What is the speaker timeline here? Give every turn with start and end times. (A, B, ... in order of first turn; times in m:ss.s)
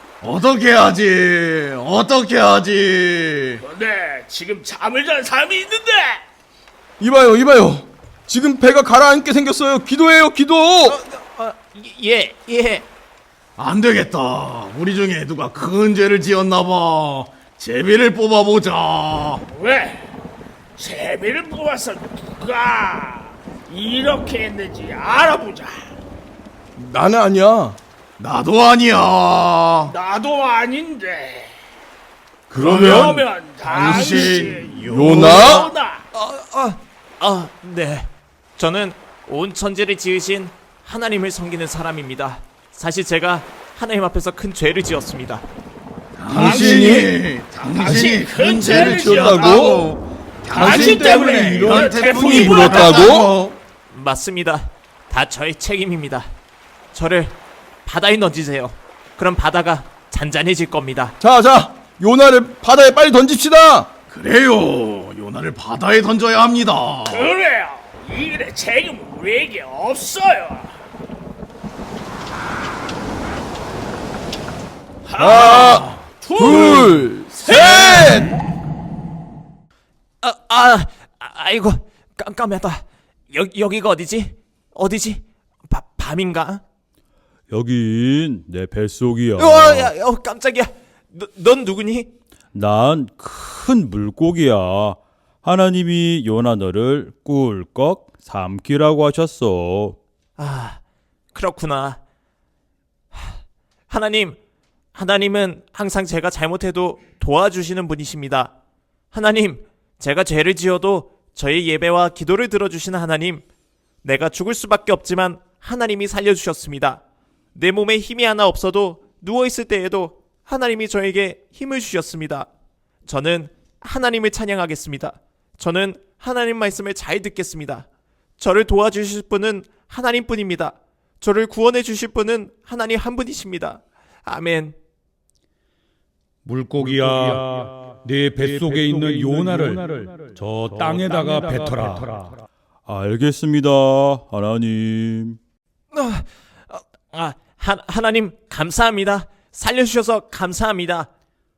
0:00.2-0:03.6 A
0:03.6-0:06.2 B
0:07.0-0:11.0 C
0:10.8-0:12.9 D
0:13.6-0:19.4 A
0:19.5-0:20.0 B
0:20.8-0:25.7 B
0:26.8-0:27.8 C
0:28.2-0:29.9 A
0:29.9-0:31.5 B
0:32.5-0:35.7 A
0:32.6-0:36.0 B
0:32.6-0:33.2 C
0:34.9-0:35.7 C
0:36.1-0:45.4 D
0:46.2-0:53.6 A
0:46.3-0:47.1 C
0:46.4-0:49.9 B
0:48.7-0:49.8 C
0:50.5-0:53.2 B
0:50.5-0:53.3 C
0:53.9-0:56.3 D
0:56.9-1:01.1 D
1:01.2-1:03.9 C
1:04.1-1:07.3 A
1:07.1-1:10.7 B
1:15.0-1:18.2 B
1:15.2-1:18.2 C
1:20.2-1:26.6 D
1:27.5-1:29.9 E
1:29.4-1:32.1 D
1:32.5-1:40.0 E
1:40.4-1:40.8 D
1:41.3-1:42.0 D
1:43.1-1:44.4 D
1:44.9-1:48.5 D
1:49.1-1:53.4 D
1:54.0-1:57.0 D
1:57.5-2:02.5 D
2:03.0-2:07.8 D
2:08.4-2:14.8 D
2:16.4-2:22.4 F
2:22.8-2:25.4 E
2:25.9-2:31.1 D